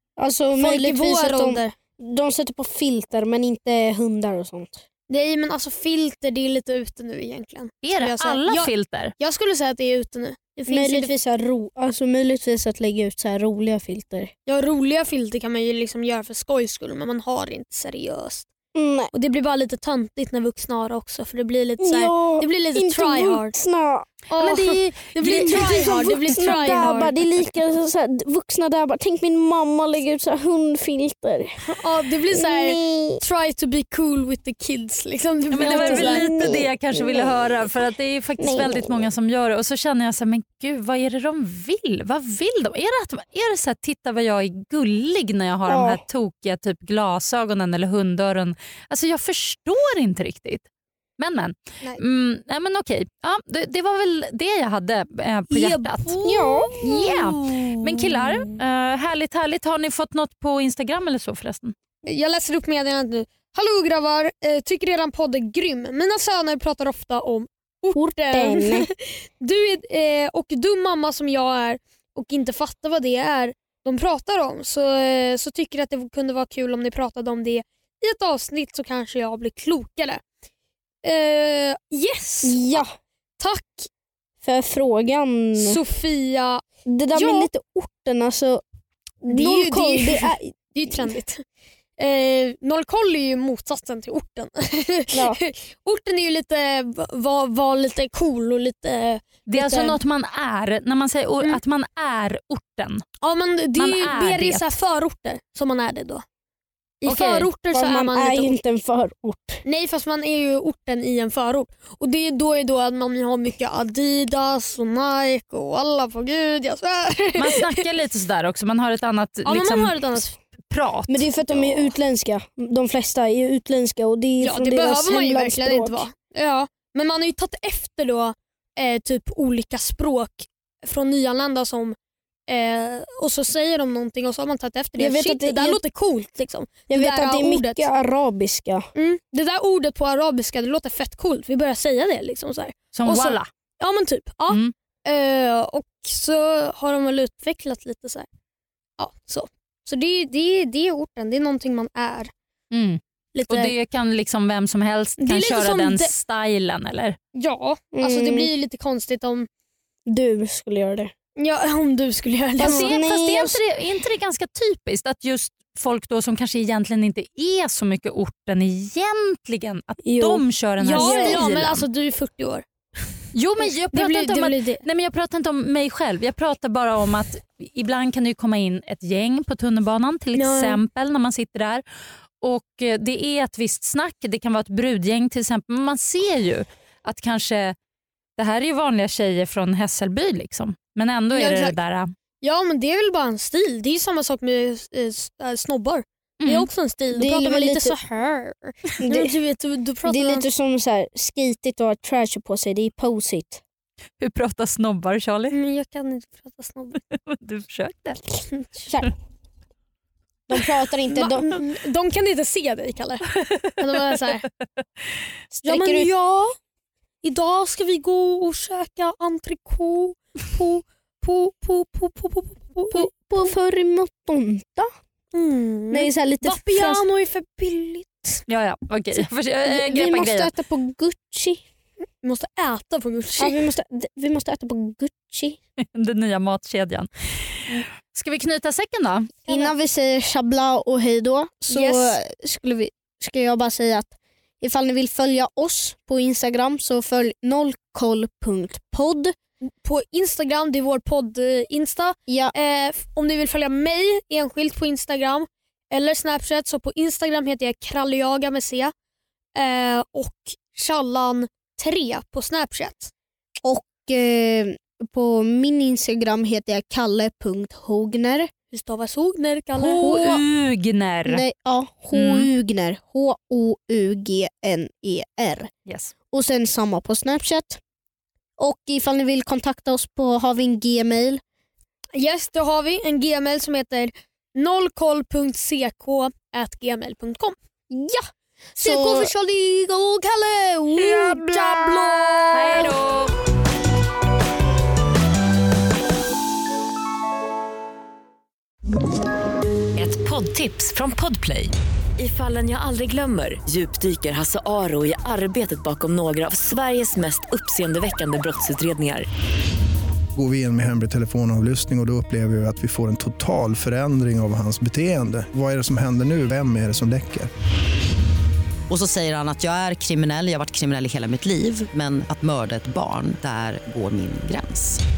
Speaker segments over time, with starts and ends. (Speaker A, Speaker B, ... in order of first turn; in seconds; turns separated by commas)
Speaker A: 0.2-4.8, Speaker B: 0.6-1.7, Speaker B: 5.1-11.1, Speaker C: 7.8-9.1, Speaker A: 10.7-14.3, Speaker B: 14.5-18.5, Speaker A: 18.7-19.1, Speaker B: 19.1-23.6, Speaker A: 21.8-24.1, Speaker B: 24.3-27.1, Speaker C: 24.4-27.0, Speaker A: 25.2-31.6, Speaker B: 31.6-36.3, Speaker A: 32.3-33.2, Speaker C: 35.5-50.6, Speaker A: 35.6-37.7, Speaker A: 38.4-39.0, Speaker A: 45.7-46.0, Speaker C: 51.2-56.1, Speaker B: 55.5-58.5, Speaker A: 56.2-56.7, Speaker C: 56.8-61.7, Speaker B: 62.0-80.2, Speaker A: 67.9-68.9, Speaker B: 81.0-82.8, Speaker A: 82.4-82.9, Speaker B: 83.4-83.9, Speaker A: 84.4-85.8, Speaker B: 85.6-86.6, Speaker A: 86.8-88.6, Speaker B: 87.1-87.5, Speaker A: 89.2-91.2, Speaker B: 89.3-91.4, Speaker B: 92.0-100.0, Speaker A: 95.1-95.4, Speaker C: 99.5-103.0, Speaker B: 103.2-106.2, Speaker C: 103.8-104.7, Speaker B: 107.0-108.6, Speaker C: 107.0-107.5, Speaker A: 107.7-109.6, Speaker B: 109.6-117.9, Speaker C: 117.3-120.2, Speaker B: 119.4-120.3, Speaker C: 120.7-121.3, Speaker A: 121.1-126.0, Speaker B: 124.4-131.9, Speaker B: 132.5-137.8, Speaker A: 135.0-135.8, Speaker A: 136.9-138.9, Speaker B: 138.9-148.3, Speaker C: 142.9-143.5, Speaker C: 144.5-144.7, Speaker B: 149.0-152.3, Speaker C: 152.7-157.2, Speaker B: 153.3-153.7, Speaker B: 155.2-156.1, Speaker B: 157.3-159.5, Speaker A: 157.9-158.5, Speaker A: 160.1-161.1, Speaker B: 161.4-163.0, Speaker A: 162.6-163.6, Speaker C: 162.6-171.8, Speaker A: 170.0-171.5, Speaker B: 170.8-172.7, Speaker C: 173.3-181.8, Speaker B: 173.6-174.8, Speaker B: 180.3-180.8, Speaker C: 182.4-187.8, Speaker C: 188.4-192.1, Speaker B: 191.3-191.7, Speaker B: 192.4-200.4, Speaker C: 196.4-196.7, Speaker A: 197.1-197.9, Speaker A: 199.0-199.3, Speaker A: 200.0-203.6, Speaker C: 204.2-205.6, Speaker B: 205.5-207.0, Speaker C: 207.1-208.2, Speaker B: 208.5-208.8, Speaker A: 210.5-211.6, Speaker B: 211.1-214.5, Speaker C: 213.6-214.1, Speaker A: 215.5-216.1, Speaker B: 215.6-216.6, Speaker B: 217.2-223.5, Speaker A: 222.9-224.9, Speaker B: 225.3-228.4, Speaker A: 225.9-227.0, Speaker C: 228.5-230.5, Speaker A: 229.7-231.6, Speaker B: 232.2-233.6, Speaker A: 233.4-235.6, Speaker C: 235.9-239.3, Speaker B: 239.5-239.7, Speaker A: 239.5-249.3, Speaker B: 241.7-242.2, Speaker B: 249.8-258.9, Speaker A: 252.3-252.5, Speaker B: 259.5-263.1, Speaker A: 263.6-268.5, Speaker B: 268.7-270.4, Speaker C: 269.8-271.4, Speaker A: 271.2-275.7, Speaker C: 272.1-272.5, Speaker C: 275.9-276.1, Speaker A: 276.3-277.8, Speaker A: 278.6-281.4, Speaker B: 282.1-287.5, Speaker A: 287.9-288.3, Speaker B: 288.8-292.9, Speaker A: 288.8-289.3, Speaker A: 291.0-292.4, Speaker C: 292.5-293.3, Speaker D: 299.9-309.3, Speaker E: 310.4-317.5, Speaker F: 318.9-325.0